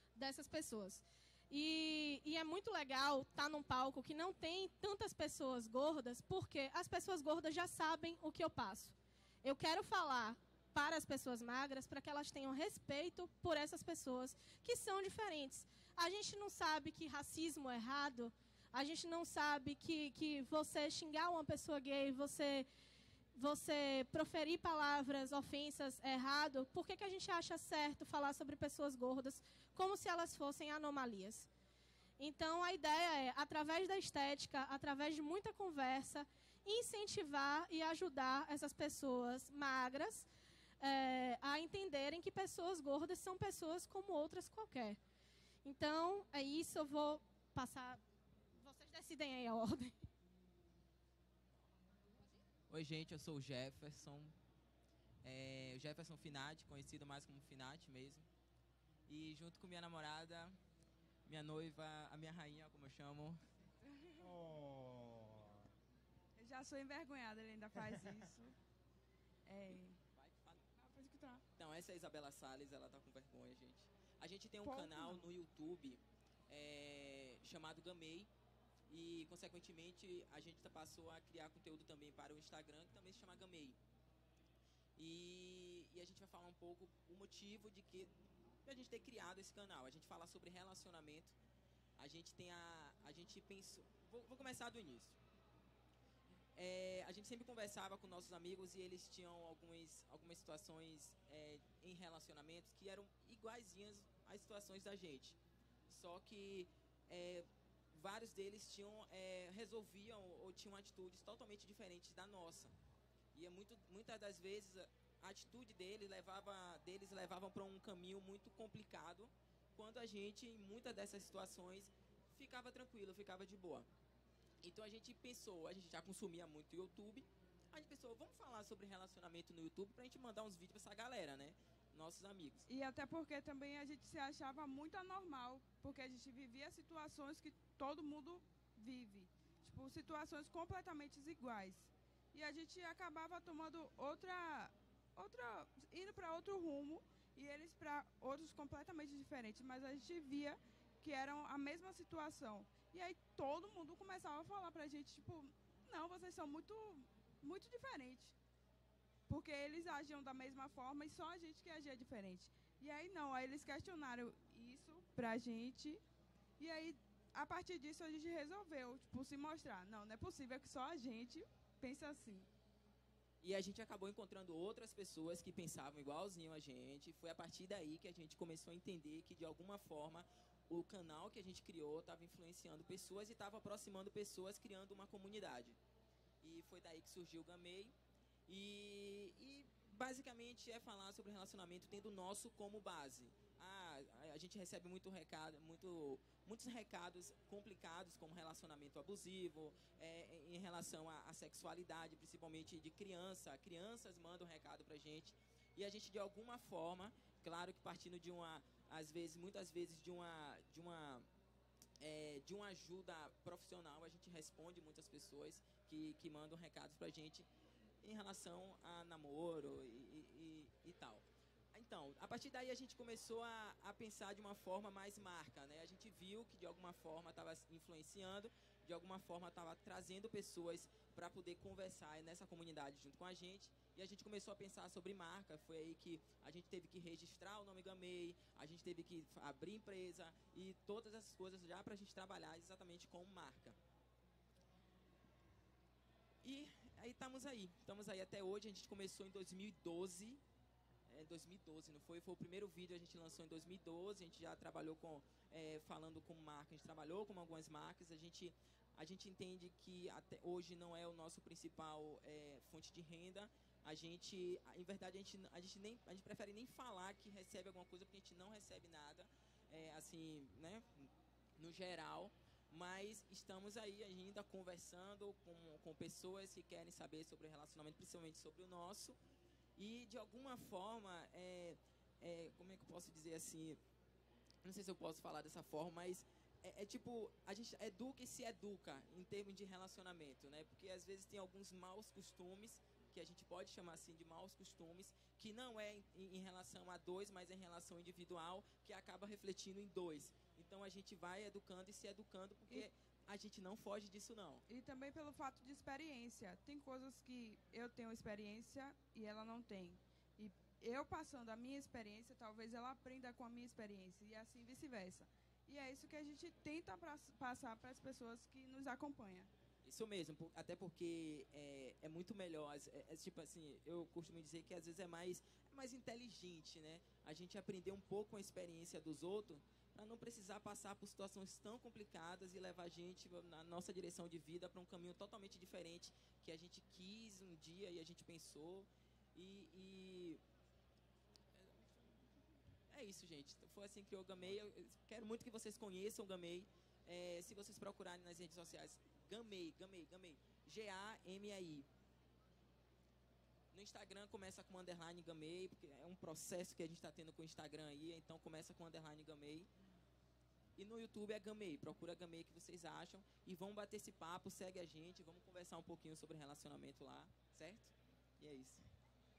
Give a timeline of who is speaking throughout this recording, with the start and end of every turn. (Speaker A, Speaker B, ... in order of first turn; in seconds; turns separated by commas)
Speaker A: 0.1-22.7, Speaker A: 23.3-31.5, Speaker A: 32.2-40.3, Speaker A: 40.8-45.0, Speaker A: 45.6-48.0, Speaker A: 48.6-50.0, Speaker B: 52.7-54.3, Speaker B: 55.2-58.3, Speaker B: 59.1-60.5, Speaker B: 61.2-63.4, Speaker C: 64.2-65.7, Speaker D: 66.4-68.5, Speaker C: 67.8-68.2, Speaker D: 69.5-70.0, Speaker B: 69.7-70.7, Speaker D: 70.8-71.4, Speaker B: 71.5-78.3, Speaker D: 74.6-75.3, Speaker B: 78.9-83.8, Speaker B: 85.0-88.1, Speaker B: 88.6-91.3, Speaker B: 92.0-95.2, Speaker B: 96.5-112.7, Speaker B: 113.3-123.9, Speaker B: 124.6-132.7, Speaker D: 132.7-158.3, Speaker D: 159.3-166.0, Speaker D: 166.6-172.5, Speaker B: 173.4-185.8, Speaker B: 186.4-187.9, Speaker B: 188.5-211.2, Speaker B: 212.0-217.5, Speaker B: 218.0-243.8, Speaker B: 246.4-250.4, Speaker B: 251.1-279.2, Speaker B: 279.8-283.8, Speaker B: 284.6-304.6, Speaker D: 304.7-319.5, Speaker B: 319.8-340.4, Speaker B: 342.9-351.9, Speaker B: 353.7-359.7, Speaker B: 360.8-368.8